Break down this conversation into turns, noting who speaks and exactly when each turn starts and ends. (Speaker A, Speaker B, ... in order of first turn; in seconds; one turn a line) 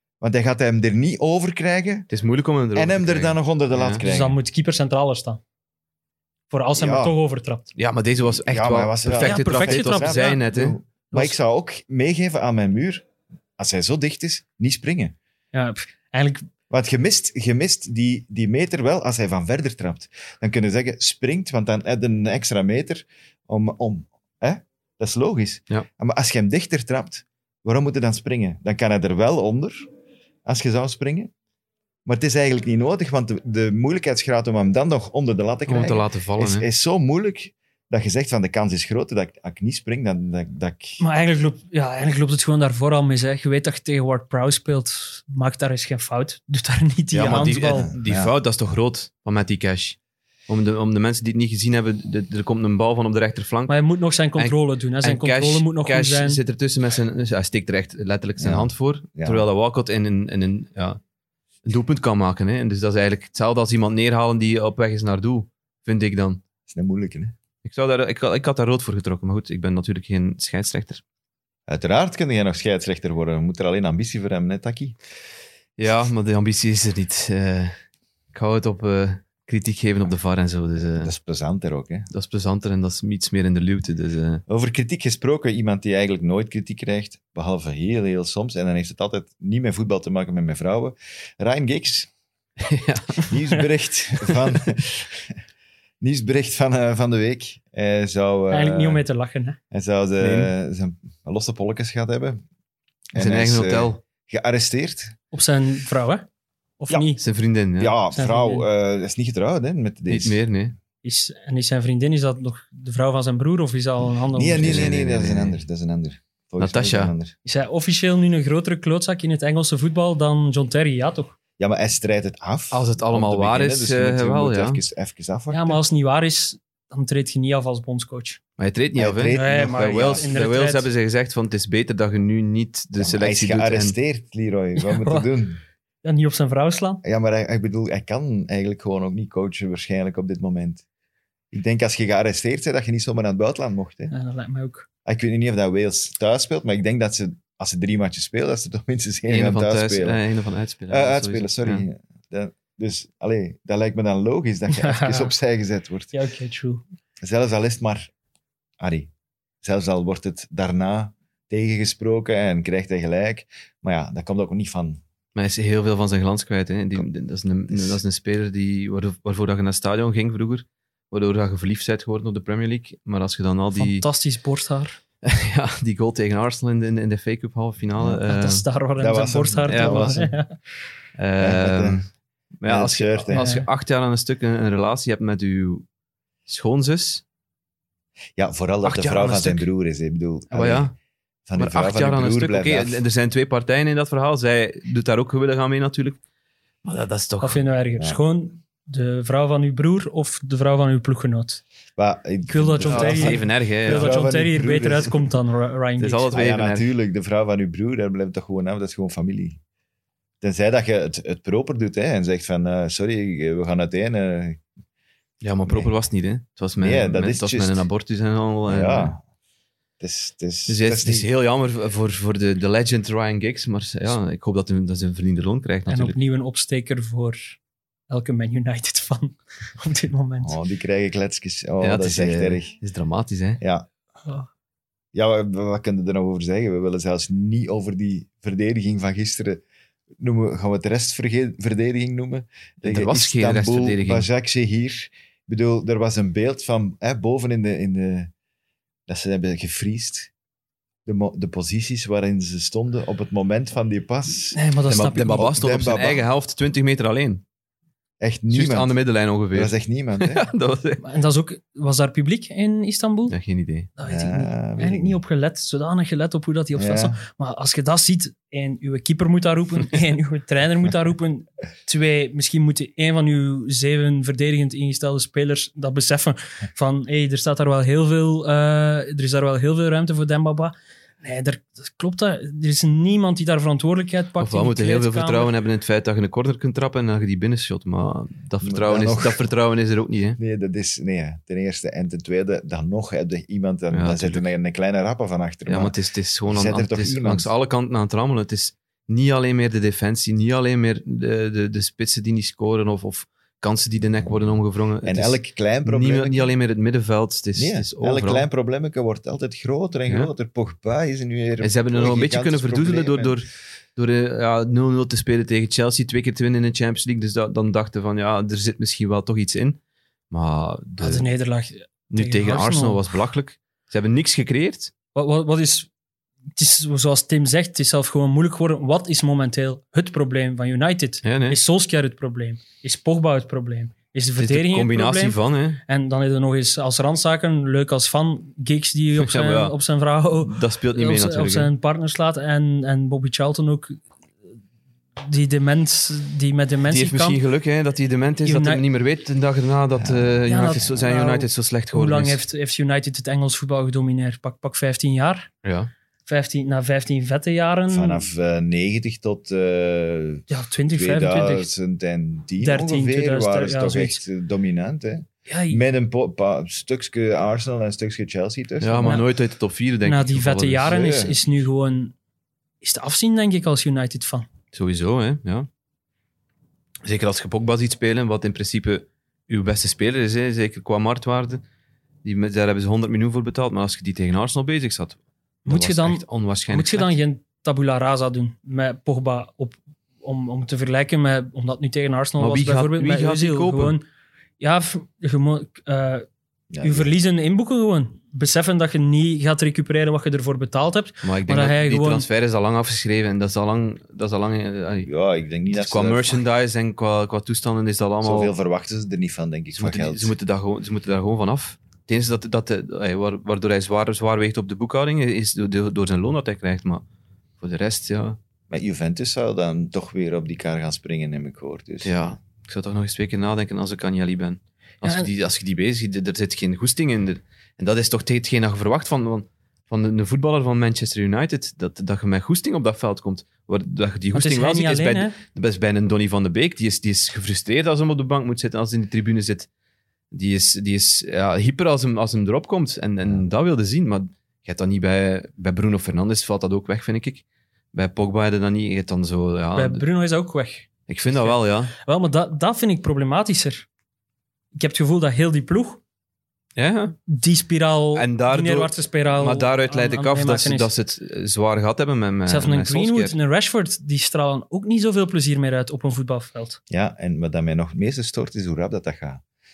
Speaker A: 0.2-2.1
Speaker B: 2.1-4.0
Speaker A: 2.8-4.4
Speaker C: 4.0-5.4
Speaker C: 6.5-7.7
Speaker A: 6.8-7.2
Speaker B: 7.8-10.8
Speaker A: 8.4-13.1
Speaker C: 9.2-10.4
Speaker A: 13.6-15.2
Speaker C: 15.5-16.5
Speaker A: 16.7-29.9
Speaker A: 30.4-31.3
Speaker A: 32.1-41.0
Speaker B: 35.7-36.7
Speaker C: 41.0-47.9
Speaker B: 47.1-50.0
Speaker A: 47.7-48.3
Speaker B: 50.5-53.8
Speaker C: 53.7-56.4
Speaker B: 54.4-61.0
Speaker A: 58.4-59.5
Speaker B: 61.6-66.4
Speaker A: 66.7-67.3
Speaker B: 67.6-71.0
Speaker A: 71.7-75.0
Speaker B: 75.8-77.8
Speaker B: 78.3-81.1
Speaker A: 81.0-82.1
Speaker B: 82.1-84.4
Speaker A: 84.5-92.1
Speaker B: 92.6-93.4
Speaker A: 93.3-95.3
Speaker A: 96.0-99.0
Speaker C: 98.5-99.6
Speaker A: 99.7-102.4
Speaker B: 100.2-100.5
Speaker A: 103.1-105.2
Speaker B: 103.2-104.0
Speaker C: 105.3-106.3
Speaker C: 106.8-107.2
Speaker B: 107.2-108.0
Speaker A: 107.8-110.4
Speaker C: 108.1-108.7
Speaker B: 110.1-110.8
Speaker C: 111.0-114.8
Speaker A: 114.3-117.3
Speaker B: 114.6-115.6
Speaker B: 116.6-117.1
Speaker C: 117.5-121.4
Speaker A: 121.6-125.8
Speaker B: 122.7-124.8
Speaker C: 125.5-128.4
Speaker B: 128.6-133.9
Speaker A: 129.0-130.3
Speaker C: 129.3-130.9
Speaker A: 133.0-135.6
Speaker C: 134.8-135.3
Speaker C: 136.0-137.0
Speaker A: 137.0-140.8
Speaker A: 141.5-144.1
Speaker C: 144.1-144.9
Speaker A: 145.1-150.2
Speaker B: 149.3-151.8
Speaker A: 150.9-156.1
Speaker C: 154.7-155.3
Speaker C: 156.1-156.8
Speaker A: 157.2-158.1
Speaker A: 158.8-159.1
Speaker A: 159.6-165.0
Speaker B: 165.3-174.1
Speaker A: 167.7-168.0
Speaker C: 173.8-175.0
Speaker B: 175.2-178.7
Speaker C: 178.3-180.6
Speaker A: 179.0-180.3
Speaker B: 179.7-180.1
Speaker B: 181.2-182.1
Speaker A: 181.4-182.0
Speaker B: 182.6-185.9
Speaker A: 182.7-183.5
Speaker C: 183.3-183.7
Speaker B: 186.5-187.2
Speaker A: 188.4-190.9
Speaker B: 188.8-189.7
Speaker B: 190.5-190.9
Speaker A: 191.5-193.0
Speaker B: 191.6-196.2
Speaker B: 196.8-197.6
Speaker C: 197.4-201.6
Speaker A: 202.0-205.3
Speaker C: 202.5-206.3
Speaker B: 202.9-204.2
Speaker B: 206.0-206.9
Speaker A: 206.3-209.6
Speaker A: 210.4-214.6
Speaker B: 215.4-219.1
Speaker A: 215.7-215.9
Speaker A: 216.8-217.8
Speaker A: 218.7-219.2
Speaker A: 220.0-221.3
Speaker B: 220.7-226.2
Speaker C: 225.9-227.6
Speaker C: 228.1-230.6
Speaker A: 230.4-232.7
Speaker B: 231.8-233.6
Speaker A: 233.6-233.9
Speaker A: 235.1-239.6
Speaker A: 240.2-248.3
Speaker B: 242.8-244.3
Speaker A: 249.1-250.3
Speaker A: 251.1-256.3
Speaker C: 254.5-255.5
Speaker B: 254.9-257.4
Speaker A: 258.2-258.9
Speaker B: 258.5-261.0
Speaker A: 259.5-260.5
Speaker C: 261.0-263.4
Speaker B: 263.3-263.9
Speaker C: 264.0-285.5
Speaker A: 264.1-265.2
Speaker A: 266.8-267.2
Speaker B: 284.4-290.4
Speaker A: 288.6-289.4
Speaker A: 290.4-295.9
Speaker B: 293.9-294.4
Speaker B: 295.7-308.5
Speaker A: 296.5-297.5
Speaker A: 305.0-306.5
Speaker A: 307.6-313.4
Speaker B: 311.6-319.8
Speaker B: 320.3-321.3
Speaker C: 321.0-323.0
Speaker B: 322.1-324.9
Speaker C: 325.1-325.9
Speaker C: 326.6-344.0
Speaker B: 331.2-331.6
Speaker B: 334.4-335.8
Speaker B: 339.2-339.8
Speaker B: 340.4-341.7
Speaker C: 345.2-347.4
Speaker B: 346.9-352.4
Speaker C: 348.4-348.8
Speaker A: 349.9-350.4
Speaker C: 350.5-355.5
Speaker B: 355.6-355.9
Speaker C: 356.3-358.3
Speaker A: 357.9-369.2
Speaker C: 360.5-361.7
Speaker C: 362.6-364.2
Speaker C: 365.5-365.8
Speaker B: 368.8-371.0
Speaker C: 370.1-372.1
Speaker A: 370.9-371.4
Speaker C: 372.8-374.5
Speaker B: 374.7-375.7
Speaker B: 377.0-381.6
Speaker B: 382.2-387.2
Speaker C: 385.7-394.0
Speaker B: 392.4-394.0
Speaker C: 394.6-396.3
Speaker A: 396.7-397.2
Speaker C: 396.8-402.3
Speaker B: 401.2-405.1
Speaker A: 405.1-406.4
Speaker B: 405.7-408.5
Speaker A: 408.2-410.4
Speaker B: 409.7-417.0
Speaker B: 417.6-418.4
Speaker A: 418.7-422.2
Speaker B: 422.0-439.7
Speaker C: 425.0-425.3
Speaker C: 434.3-435.4
Speaker B: 440.3-450.0
Speaker C: 449.8-453.9
Speaker B: 451.1-451.9
Speaker C: 454.7-456.0
Speaker B: 456.8-457.2
Speaker C: 457.3-460.9
Speaker B: 458.1-463.4
Speaker C: 462.5-466.8
Speaker A: 466.9-469.4